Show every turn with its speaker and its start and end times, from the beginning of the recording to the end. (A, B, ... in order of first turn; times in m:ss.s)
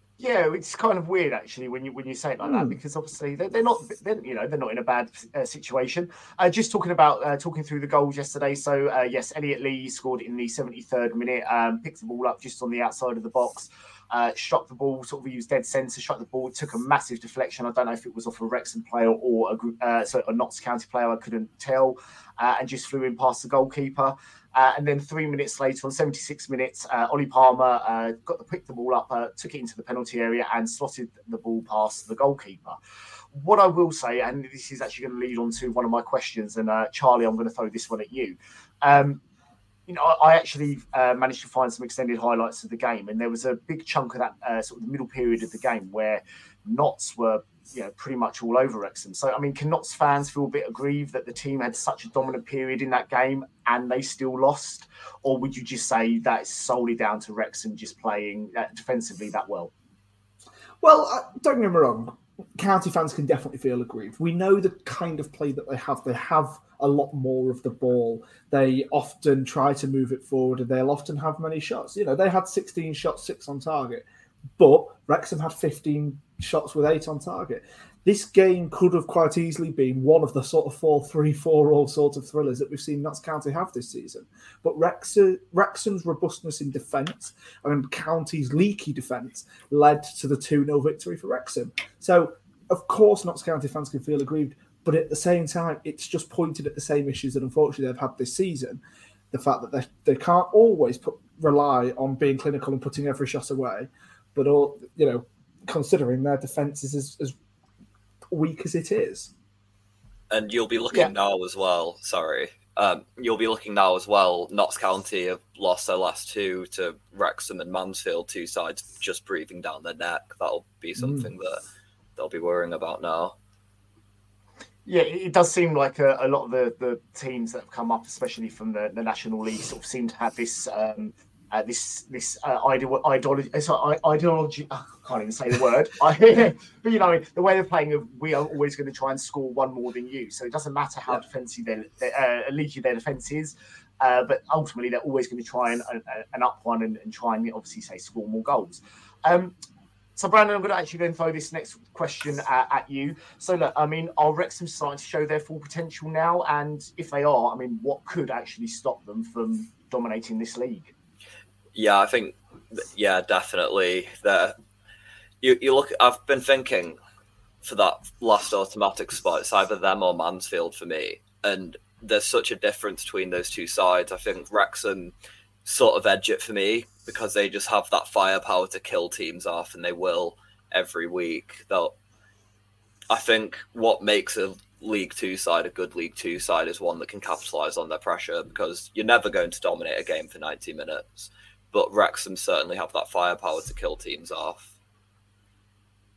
0:00.2-0:32.8 A
0:02.4-0:02.8 B
0:33.3-0:39.2 A
0:39.9-0:59.7 A
1:00.8-1:14.0 B
1:14.6-1:47.3 B
1:48.3-1:49.3 B
1:50.3-2:01.6 C
2:01.0-2:01.3 B
2:02.2-2:03.3 C
2:04.8-2:29.5 A
2:30.2-2:40.9 A
2:41.7-2:44.6 C
2:45.4-2:47.0 C
2:47.6-2:55.1 C
2:55.7-3:01.9 C
3:03.1-3:14.7 C